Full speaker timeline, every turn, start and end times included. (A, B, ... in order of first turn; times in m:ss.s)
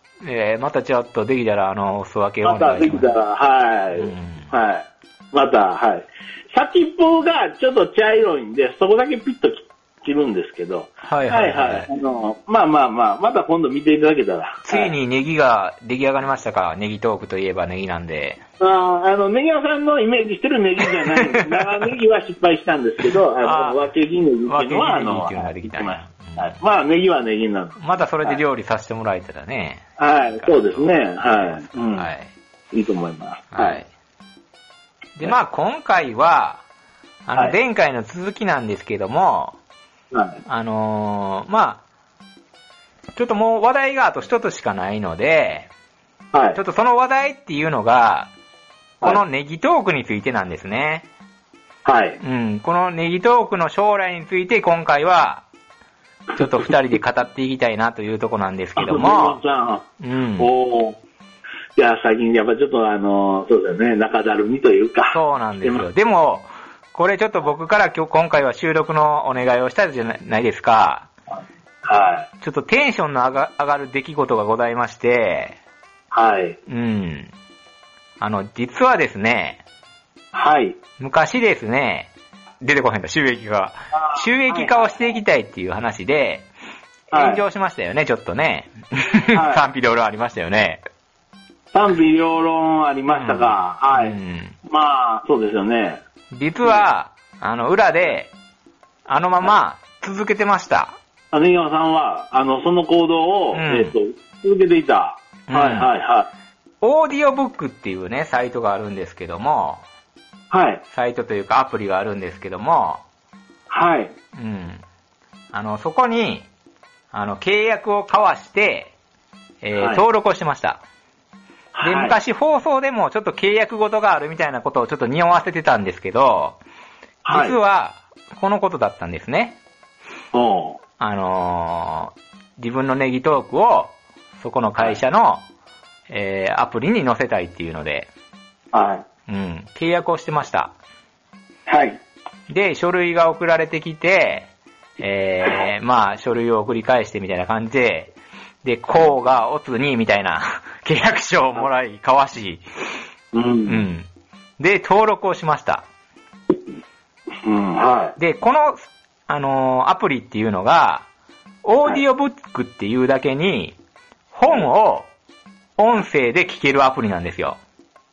0:00.2-0:03.1 A
0:02.4-0:15.0 B
0:04.0-0:04.5 A
0:11.0-0:11.9 A
0:14.7-0:18.4 A
0:18.6-0:28.4 B
0:23.4-0:23.8 A
0:24.5-0:26.6 A
0:27.8-0:32.3 A
0:30.0-0:32.1 B
0:32.7-0:33.8 B
0:33.5-0:33.9 A
0:35.2-0:36.6 A
0:37.3-0:39.6 A
0:40.1-0:40.4 B
0:40.5-0:41.8 A
0:43.2-0:45.7 A
0:46.3-0:46.6 B
0:46.6-0:48.3 A
0:49.0-0:51.1 A
0:51.8-0:52.2 B
0:52.2-0:55.4 A
0:56.4-0:56.6 B
0:56.4-0:59.4 A
0:58.8-0:59.9 B
1:00.0-1:00.5 A
1:00.4-1:01.0 B
1:01.8-1:05.8 B
1:05.1-1:11.1 A
1:11.8-1:12.3 B
1:12.4-1:15.6 A
1:16.1-1:16.6 B
1:16.7-1:17.3 A
1:18.2-1:19.6 A
1:20.3-1:20.8 B
1:21.0-1:22.1 A
1:22.6-1:26.5 A
1:23.9-1:25.1 B
1:27.1-1:30.8 A
1:27.1-1:27.4 B
1:29.3-1:29.7 B
1:31.7-1:36.0 B
1:33.1-1:34.6 A
1:36.3-1:38.3 A
1:39.1-1:41.0 A
1:41.3-1:46.3 B
1:43.5-1:44.0 A
1:45.5-1:45.9 A
1:46.8-1:49.8 A
1:50.5-1:50.8 B
1:50.9-1:53.0 A
1:53.7-1:54.2 B
1:54.4-1:54.8 A
1:55.5-1:56.5 A
1:57.1-1:58.9 A
1:59.6-2:00.8 A
1:59.8-2:00.0 B
2:01.7-2:02.2 B
2:01.8-2:06.6 A
2:07.2-2:07.6 B
2:07.3-2:09.6 A
2:10.3-2:10.8 B
2:11.0-2:15.4 A
2:16.1-2:18.1 A
2:18.7-2:19.0 B
2:19.3-2:20.7 A
2:21.7-2:22.0 B
2:22.5-2:32.6 A
2:33.3-2:33.9 B
2:33.7-2:34.1 A
2:34.6-2:35.8 A
2:37.4-2:38.2 B
2:38.2-2:41.1 A
2:41.6-2:43.8 A
2:44.3-2:45.1 A
2:45.8-2:47.6 A